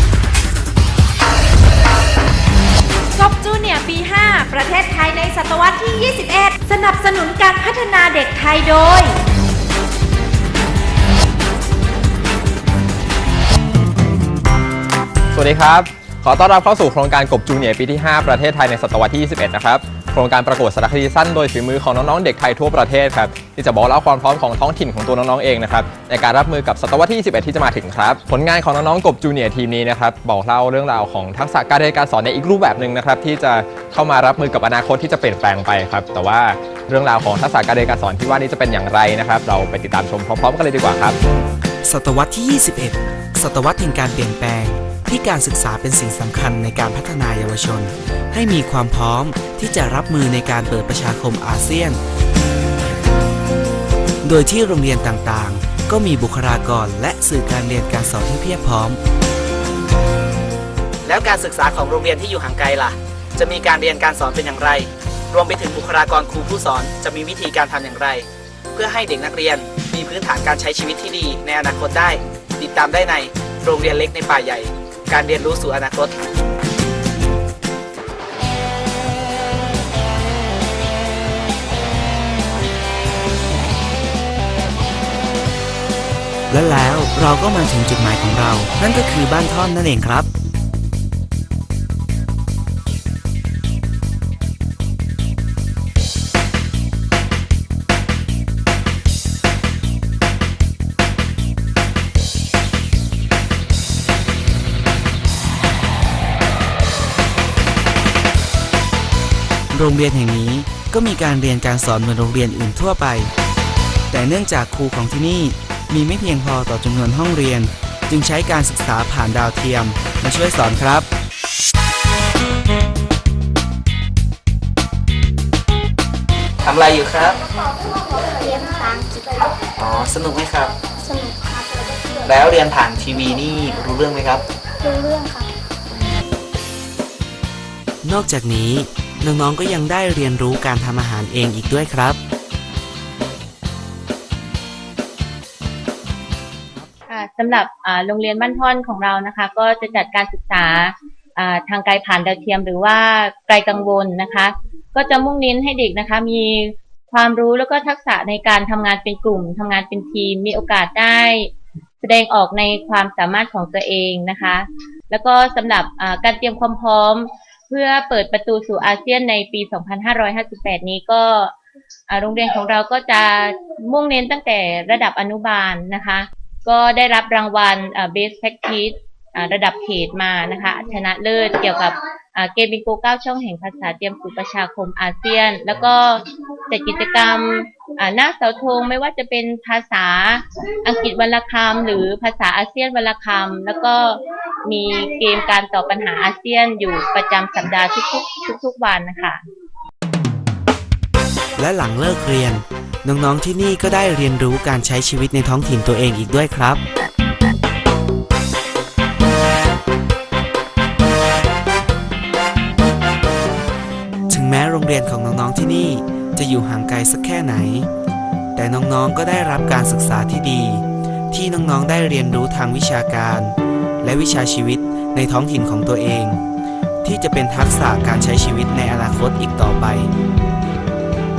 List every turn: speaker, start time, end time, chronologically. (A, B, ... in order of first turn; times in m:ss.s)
0:03.2-0:09.1 A
0:15.3-0:41.2 B
0:41.8-0:52.0 C
0:54.2-0:59.0 C
1:01.0-1:16.1 D
1:26.5-1:30.3 C
1:49.7-1:53.3 C
1:54.1-2:01.1 C
2:06.6-2:07.4 D
2:08.3-2:09.6 E
2:09.8-2:10.8 D
2:10.9-2:12.2 E
2:12.2-2:14.4 D
2:14.8-2:15.5 E
2:18.0-2:22.2 C
2:27.1-2:51.5 F
2:52.1-3:19.4 F
3:21.6-3:26.8 C
3:34.3-3:37.9 C
3:38.5-3:46.4 C
3:47.0-3:50.1 C